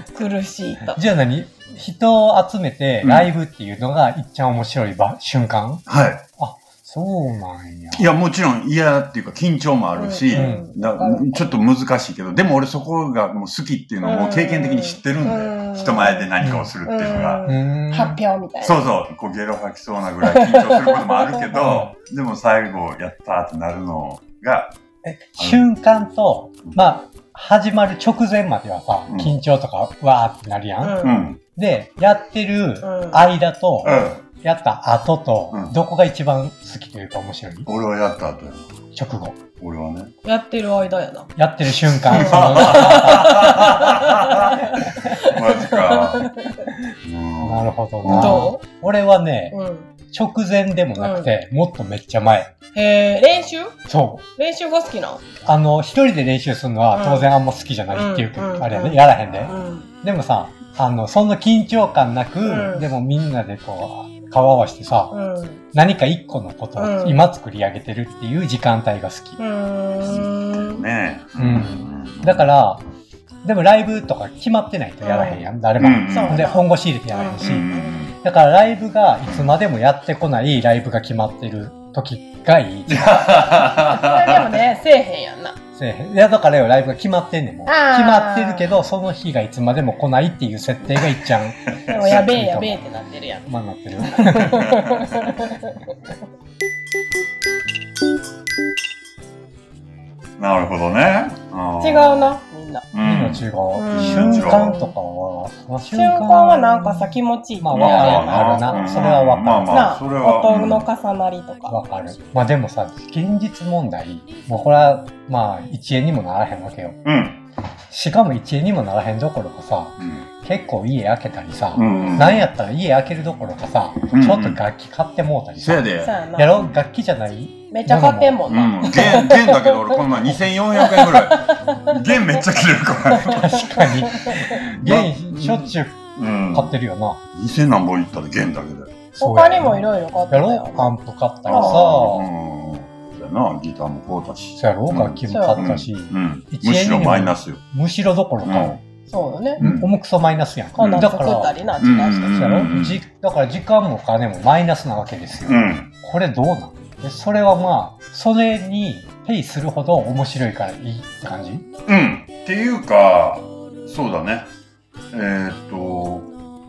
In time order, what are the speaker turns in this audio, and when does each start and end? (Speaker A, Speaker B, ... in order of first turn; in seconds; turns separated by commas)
Speaker A: 0.1-1.0, Speaker B: 0.9-5.8, Speaker C: 3.0-3.3, Speaker C: 5.9-6.2, Speaker B: 6.4-8.1, Speaker C: 7.9-17.4, Speaker A: 9.9-11.5, Speaker B: 10.3-10.7, Speaker A: 14.0-16.3, Speaker B: 16.4-16.7, Speaker A: 16.9-18.8, Speaker B: 17.4-18.2, Speaker C: 18.6-24.8, Speaker A: 20.2-21.4, Speaker B: 21.5-21.9, Speaker B: 25.0-31.0, Speaker C: 25.4-25.6, Speaker C: 29.1-29.3, Speaker A: 30.8-31.2, Speaker C: 31.0-31.4, Speaker B: 31.6-37.7, Speaker A: 32.8-33.2, Speaker C: 33.8-34.2, Speaker C: 37.6-38.8, Speaker B: 38.9-39.4, Speaker C: 39.6-40.1, Speaker A: 40.2-41.3, Speaker B: 41.4-43.8, Speaker C: 42.0-46.3, Speaker A: 42.1-46.7, Speaker C: 47.0-48.5, Speaker B: 47.4-49.5, Speaker A: 48.1-48.6, Speaker A: 49.5-49.9, Speaker B: 50.1-52.5, Speaker A: 51.0-51.3, Speaker A: 52.7-53.8, Speaker B: 53.9-54.2, Speaker A: 54.4-55.2, Speaker B: 55.4-65.1, Speaker A: 56.9-57.3, Speaker A: 57.9-59.9, Speaker C: 59.2-59.5, Speaker A: 62.4-62.9, Speaker A: 65.1-65.6, Speaker B: 65.7-69.4, Speaker A: 66.8-67.2, Speaker A: 69.4-70.8, Speaker C: 70.0-72.5, Speaker B: 71.4-72.8, Speaker B: 73.4-77.7, Speaker A: 75.0-75.4, Speaker C: 75.8-76.5, Speaker A: 76.1-77.4, Speaker C: 77.4-78.2, Speaker B: 78.2-83.5, Speaker C: 82.9-84.5, Speaker A: 83.7-85.6, Speaker B: 85.7-92.8, Speaker A: 87.7-88.7, Speaker C: 91.7-92.2, Speaker A: 91.9-93.5, Speaker B: 93.5-94.8, Speaker A: 94.1-95.9, Speaker C: 94.7-95.2, Speaker C: 100.4-102.4, Speaker A: 101.8-102.8, Speaker C: 102.9-104.7, Speaker B: 103.0-109.9, Speaker A: 103.7-104.9, Speaker A: 105.9-109.1, Speaker C: 107.7-110.9, Speaker A: 109.7-111.8, Speaker B: 111.7-117.0, Speaker C: 117.0-117.4, Speaker B: 117.9-128.5, Speaker C: 120.0-120.3, Speaker C: 121.7-122.5, Speaker A: 121.8-122.3, Speaker C: 124.1-124.6, Speaker C: 125.6-126.8, Speaker A: 126.0-126.6, Speaker A: 127.7-130.0, Speaker C: 128.5-133.7, Speaker A: 130.8-132.0, Speaker B: 133.2-137.2, Speaker A: 133.5-134.6, Speaker C: 134.7-136.7, Speaker C: 137.3-139.1, Speaker A: 139.2-140.9, Speaker B: 139.2-142.3, Speaker C: 141.4-147.6, Speaker A: 141.5-141.8, Speaker B: 144.6-148.8, Speaker A: 145.3-145.6, Speaker C: 148.4-148.8, Speaker A: 149.1-149.6, Speaker B: 149.6-151.5, Speaker C: 149.6-149.9, Speaker A: 150.8-152.4, Speaker C: 150.8-151.0, Speaker C: 151.8-153.0, Speaker B: 152.3-161.7, Speaker C: 155.5-155.9, Speaker C: 161.9-164.5, Speaker C: 165.1-166.3